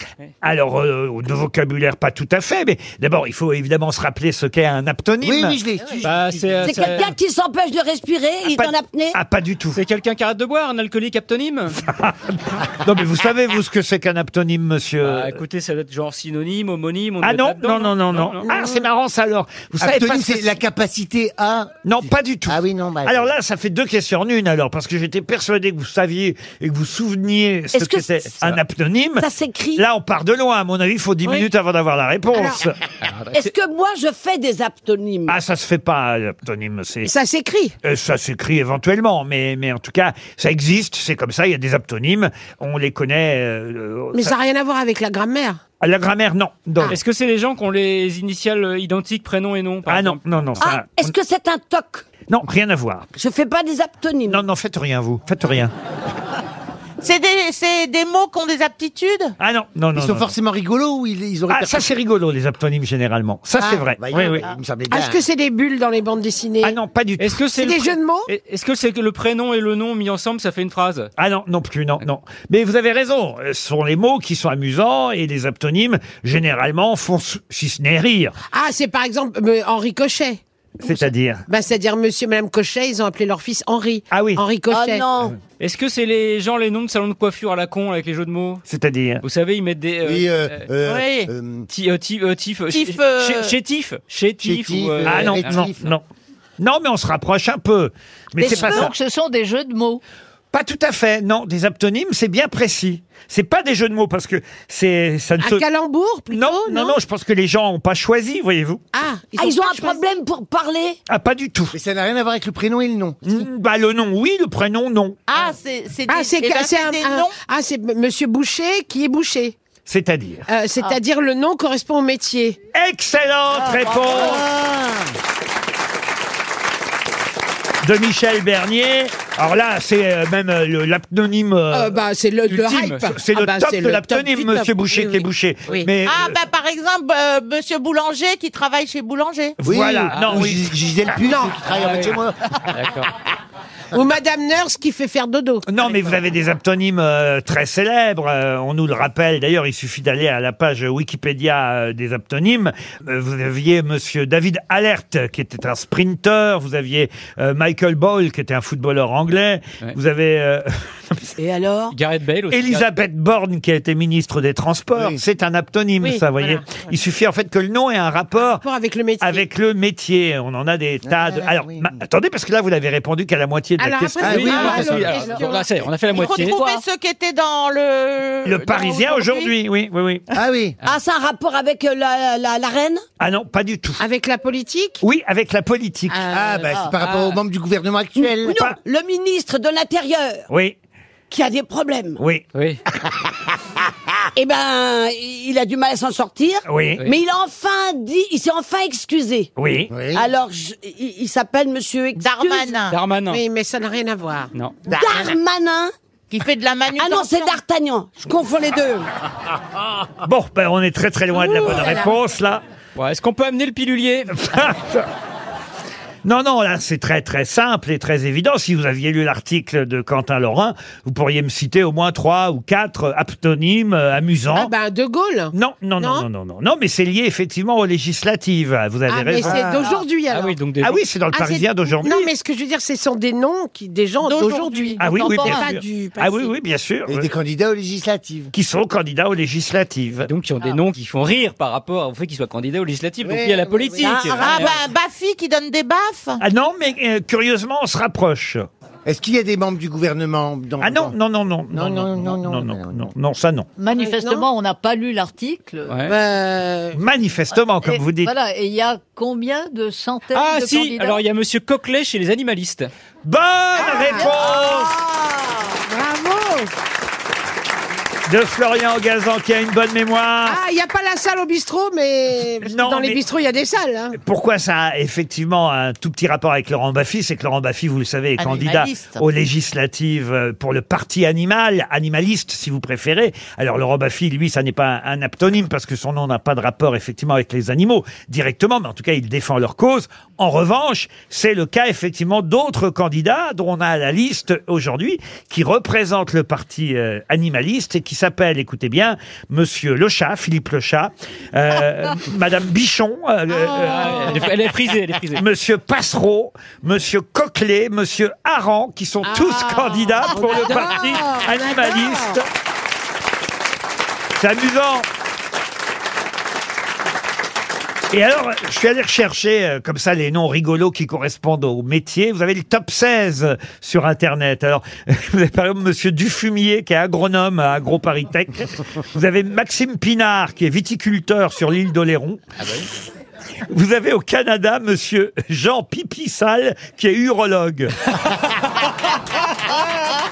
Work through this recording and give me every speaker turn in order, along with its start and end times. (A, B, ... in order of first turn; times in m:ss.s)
0:00.4-0:05.6 A
0:05.2-0:07.0 B
0:06.0-0:07.1 C
0:06.6-0:09.2 D
0:08.5-0:09.8 A
0:09.8-0:11.8 C
0:11.9-0:15.4 A
0:15.0-0:18.5 C
0:17.2-0:20.6 A
0:18.5-0:18.8 E
0:19.8-0:21.8 B
0:21.8-0:32.8 A
0:22.5-0:23.3 B
0:27.7-0:28.5 D
0:29.2-0:29.8 D
0:32.3-0:32.7 E
0:33.0-0:33.5 C
0:33.3-0:35.4 D
0:35.3-0:37.1 A
0:37.0-0:37.8 E
0:37.8-0:44.4 A
0:44.1-0:45.6 E
0:45.8-0:47.0 A
0:46.9-0:50.2 C
0:49.9-0:51.2 A
0:50.6-0:52.0 D
0:52.3-0:53.1 A
0:53.2-0:54.4 D
0:54.3-0:55.7 A
0:57.0-0:59.4 F
0:59.4-1:00.3 A
0:59.9-1:01.9 B
1:01.5-1:04.5 A
1:03.7-1:05.2 B
1:04.9-1:06.8 E
1:06.6-1:07.4 A
1:07.2-1:11.1 C
1:07.5-1:08.3 E
1:11.2-1:18.4 A
1:18.5-1:25.1 E
1:20.8-1:21.4 A
1:24.1-1:24.4 A
1:24.7-1:25.4 D
1:25.4-1:28.6 C
1:28.7-1:29.2 A
1:29.2-1:30.7 C
1:30.0-1:31.7 B
1:30.8-1:31.3 F
1:31.7-1:35.7 C
1:32.7-1:33.6 F
1:34.4-1:35.9 B
1:35.1-1:36.0 A
1:36.6-1:38.9 A
1:38.4-1:38.9 D
1:38.4-1:40.0 G
1:40.5-1:45.6 A
1:45.4-1:47.0 E
1:46.3-1:48.8 A
1:48.9-1:50.1 E
1:49.4-1:51.0 D
1:51.1-1:51.8 A
1:51.7-1:53.2 B
1:53.2-1:55.2 A
1:55.3-1:57.4 F
1:56.1-1:59.6 E
1:59.9-2:00.5 A
2:00.5-2:02.6 E
2:02.7-2:04.5 A
2:03.9-2:04.3 G
2:04.3-2:05.0 B
2:07.8-2:12.0 A
2:11.7-2:15.9 E
2:12.5-2:13.1 C
2:13.1-2:16.4 A
2:16.0-2:19.6 F
2:19.6-2:20.7 A
2:19.6-2:22.4 B
2:20.1-2:20.5 C
2:21.2-2:21.6 E
2:21.7-2:23.1 C
2:23.9-2:25.7 E
2:25.7-2:41.3 A
2:41.4-2:42.0 D
2:41.9-2:42.9 C
2:42.5-2:48.6 A
2:44.9-2:45.2 B
2:46.0-2:46.9 E
2:48.4-2:49.5 E
2:49.2-2:55.0 A
2:51.0-2:52.0 B
2:53.8-2:55.7 E
2:54.2-2:55.2 B
2:54.3-2:56.7 C
2:56.1-2:59.5 F
2:56.2-2:56.8 G
2:58.4-3:00.2 A
3:00.3-3:00.8 B
3:00.8-3:03.0 D
3:03.2-3:04.0 A
3:04.0-3:05.0 E
3:05.0-3:06.2 A
3:06.1-3:06.9 E
3:06.3-3:08.6 B
3:07.0-3:07.4 C
3:08.2-3:10.5 D
3:08.5-3:08.8 A
3:10.5-3:10.8 A
3:11.3-3:12.2 D
3:12.2-3:12.4 A
3:12.5-3:12.8 C
3:14.4-3:19.5 D
3:16.7-3:17.0 A
3:19.6-3:19.9 A
3:19.9-3:20.2 B
3:20.1-3:22.7 D
3:22.2-3:23.0 F
3:22.9-3:23.4 C
3:23.3-3:24.5 E
3:24.9-3:25.9 D
3:26.3-3:27.6 F
3:27.0-3:29.1 D
3:30.2-3:32.6 A
3:31.3-3:32.2 E
3:33.0-3:34.5 C
3:34.5-3:35.1 A
3:36.2-3:44.7 A
3:44.5-3:46.3 E
3:45.5-3:49.8 A
3:49.1-3:50.6 E
3:50.3-3:51.0 C
3:50.8-3:52.3 A
3:51.3-3:56.6 E
3:54.2-3:55.6 F
3:55.0-3:57.3 A
3:57.1-3:58.5 B
3:58.5-4:00.3 A
4:00.3-4:04.8 C
4:03.2-4:04.1 B
4:04.0-4:04.7 D
4:04.4-4:06.4 F
4:06.4-4:08.7 A
4:09.1-4:11.2 B
4:10.8-4:13.7 A
4:11.7-4:13.1 B
4:13.8-4:16.0 G
4:14.0-4:14.5 E
4:15.9-4:16.2 C
4:16.1-4:17.0 E
4:16.9-4:18.3 A
4:17.8-4:21.2 G
4:20.3-4:22.9 C
4:23.2-4:25.0 A
4:23.8-4:26.7 E
4:28.3-4:30.6 A
4:30.5-4:34.2 E
4:32.6-4:33.2 A
4:34.2-5:04.5 A
4:38.4-4:39.2 F
5:03.5-5:04.5 E
5:03.7-5:05.4 C
5:05.4-5:12.4 A
5:09.2-5:12.4 E
5:10.5-5:11.1 C
5:14.4-5:15.1 A
5:18.1-5:32.4 A
5:33.7-5:38.1 A